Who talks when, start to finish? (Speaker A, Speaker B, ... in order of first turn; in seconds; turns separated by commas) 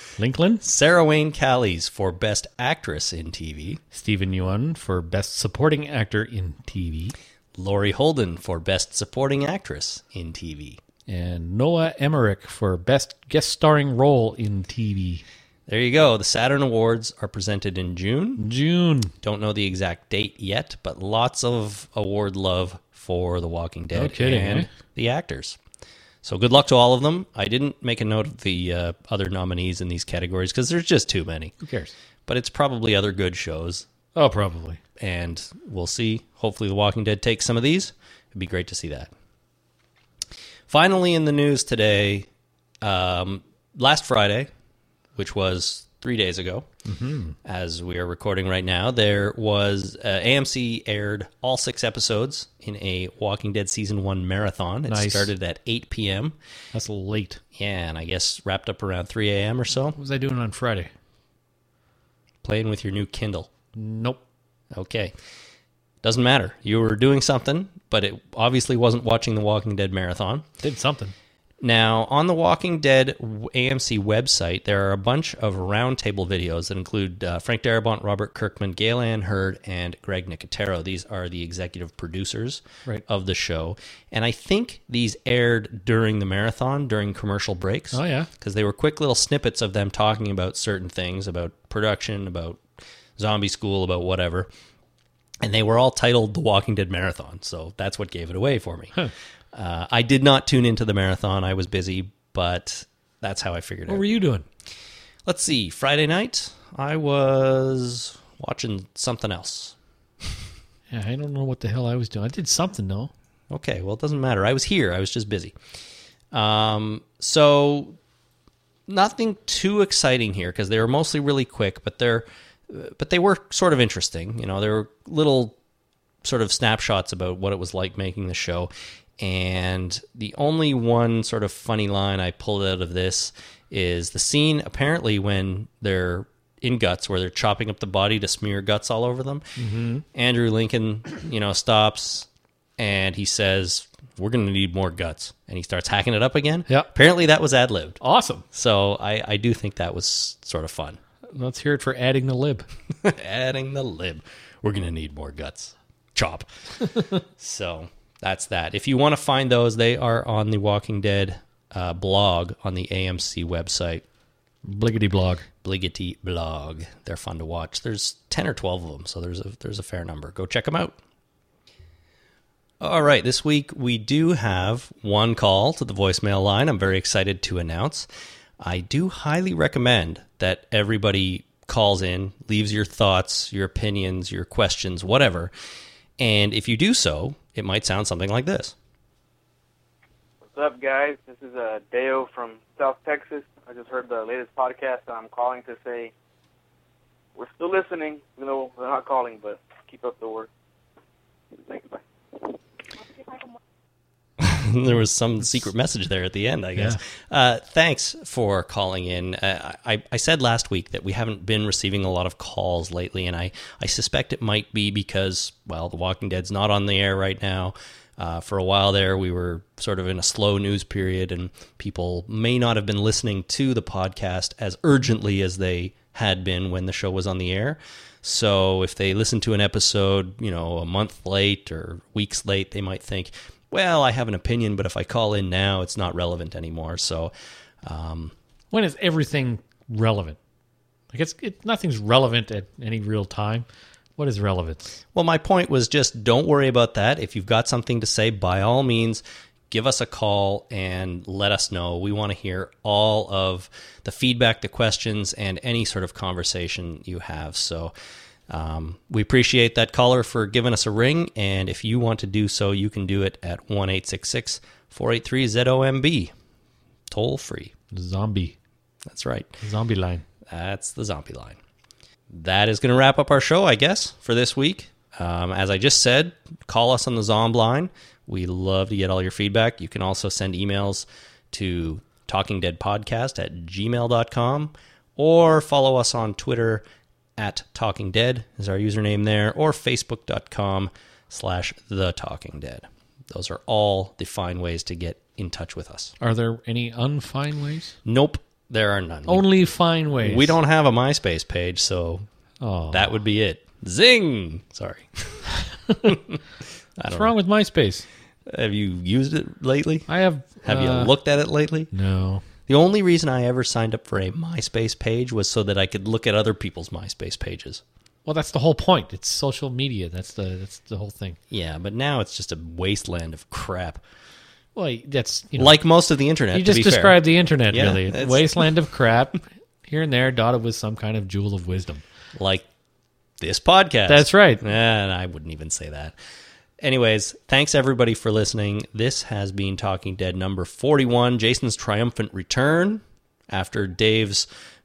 Speaker A: 0.2-0.6, Speaker B: 0.6-3.8, Speaker A: 3.9-7.1, Speaker B: 7.6-10.8, Speaker A: 11.1-15.2, Speaker B: 15.7-18.4, Speaker A: 18.4-19.1, Speaker B: 19.2-25.6, Speaker A: 23.9-24.7, Speaker B: 26.2-31.5, Speaker A: 31.6-31.9, Speaker B: 32.3-33.9, Speaker A: 34.1-34.8, Speaker B: 35.0-39.1, Speaker B: 40.7-42.3, Speaker B: 42.8-44.5, Speaker B: 45.2-46.7, Speaker A: 46.9-47.4, Speaker B: 47.4-56.4, Speaker A: 54.9-55.3, Speaker A: 56.7-57.4, Speaker B: 57.6-60.0, Speaker A: 60.0-60.9, Speaker B: 62.4-63.5, Speaker A: 63.8-64.2, Speaker B: 64.7-65.1, Speaker B: 66.0-70.5, Speaker A: 70.6-71.1, Speaker B: 71.6-92.6, Speaker A: 87.9-88.3, Speaker B: 93.2-94.5, Speaker B: 95.4-104.0, Speaker A: 103.9-104.5, Speaker B: 105.3-109.8, Speaker A: 110.9-113.1, Speaker B: 113.5-115.5, Speaker B: 116.3-118.0, Speaker B: 118.9-125.6, Speaker B: 126.2-139.4, Speaker A: 139.6-140.0, Speaker B: 140.1-142.3, Speaker B: 142.8-148.0, Speaker A: 148.0-148.4, Speaker B: 148.5-151.0, Speaker A: 151.3-152.7, Speaker B: 153.0-164.0, Speaker A: 164.7-165.4, Speaker B: 165.6-171.0, Speaker B: 172.8-178.1, Speaker B: 178.6-185.5, Speaker B: 186.2-188.8, Speaker C: 190.5-196.1, Speaker C: 197.3-200.5, Speaker C: 201.6-202.6, Speaker C: 203.2-203.5, Speaker B: 204.4-237.3, Speaker B: 237.8-238.3, Speaker A: 238.7-240.4, Speaker A: 241.1-244.9, Speaker B: 245.2-257.9, Speaker B: 258.5-266.3, Speaker B: 267.1-267.7, Speaker A: 267.9-268.6, Speaker B: 269.1-269.6, Speaker A: 269.6-270.2, Speaker B: 270.5-271.6, Speaker B: 272.3-286.8, Speaker B: 287.4-296.1, Speaker A: 296.2-297.9, Speaker B: 298.1-299.5, Speaker A: 299.3-300.6, Speaker B: 300.2-302.3, Speaker A: 302.6-303.1, Speaker B: 302.9-306.4, Speaker B: 307.0-307.3, Speaker A: 307.1-308.1, Speaker B: 308.5-310.1, Speaker A: 310.1-311.1, Speaker B: 310.6-311.9, Speaker A: 311.9-312.4, Speaker B: 312.7-317.8, Speaker A: 318.2-321.4, Speaker B: 321.5-324.0, Speaker A: 324.8-325.8, Speaker B: 325.6-328.6, Speaker A: 326.5-332.0, Speaker B: 332.4-332.6, Speaker B: 333.4-336.1, Speaker A: 334.1-334.6, Speaker B: 336.8-344.5